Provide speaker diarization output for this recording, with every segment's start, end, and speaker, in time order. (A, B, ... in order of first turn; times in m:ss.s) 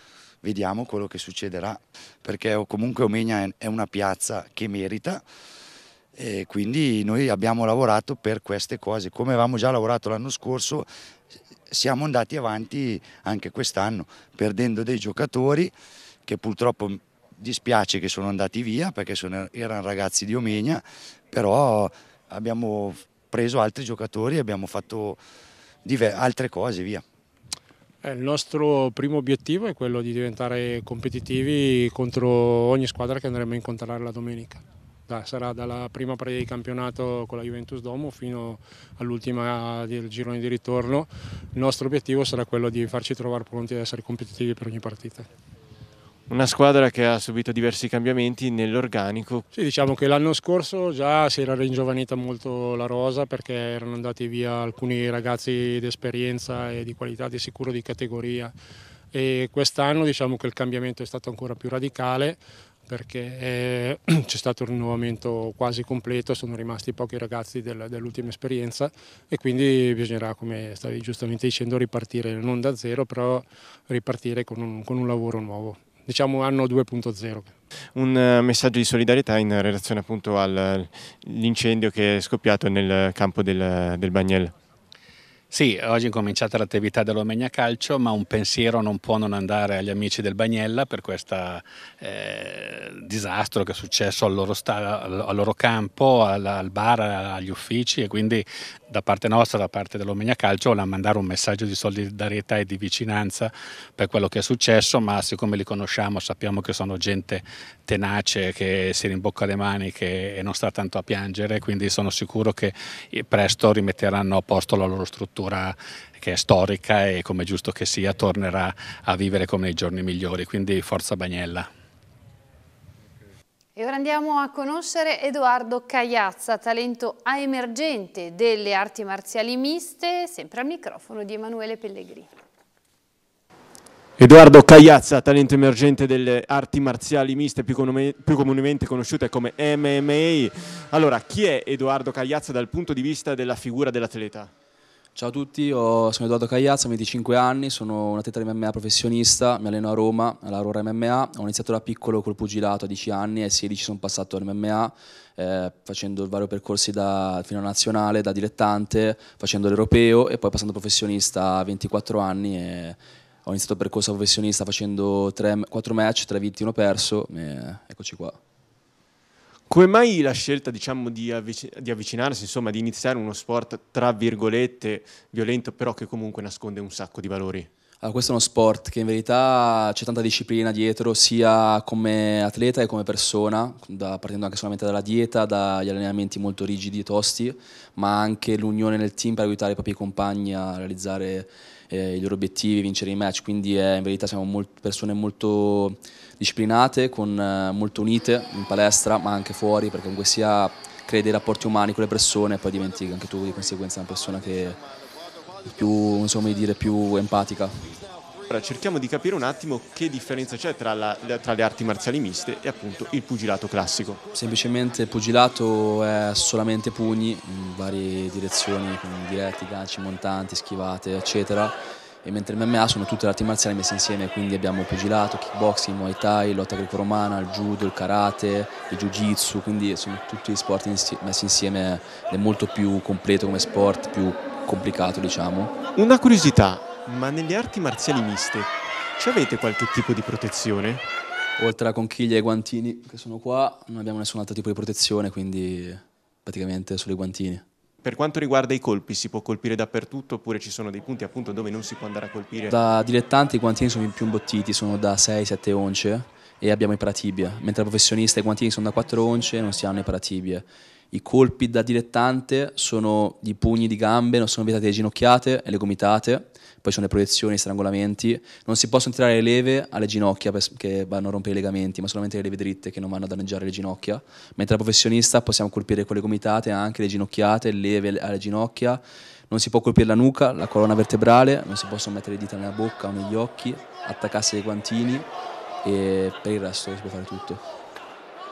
0:00.4-0:05.2 A
0:06.1-0:10.9 A
0:11.7-0:15.7 A
0:16.2-0:25.2 A
0:25.8-0:27.0 A
0:28.0-0:45.3 B
0:46.3-0:49.5 C
0:49.5-0:58.5 B
0:59.1-1:17.5 B
1:17.9-1:24.5 C
1:25.5-2:01.7 D
2:03.8-2:12.3 E
2:14.2-2:24.5 C
2:25.1-2:48.4 F
2:49.7-2:57.7 C
2:58.0-3:24.8 F
3:25.6-3:28.0 F
3:28.5-3:34.2 C
3:34.3-3:55.8 F
3:55.9-4:01.0 C
4:01.6-4:07.6 F
4:08.0-4:12.7 C
4:12.7-4:45.3 F
4:45.8-4:47.6 F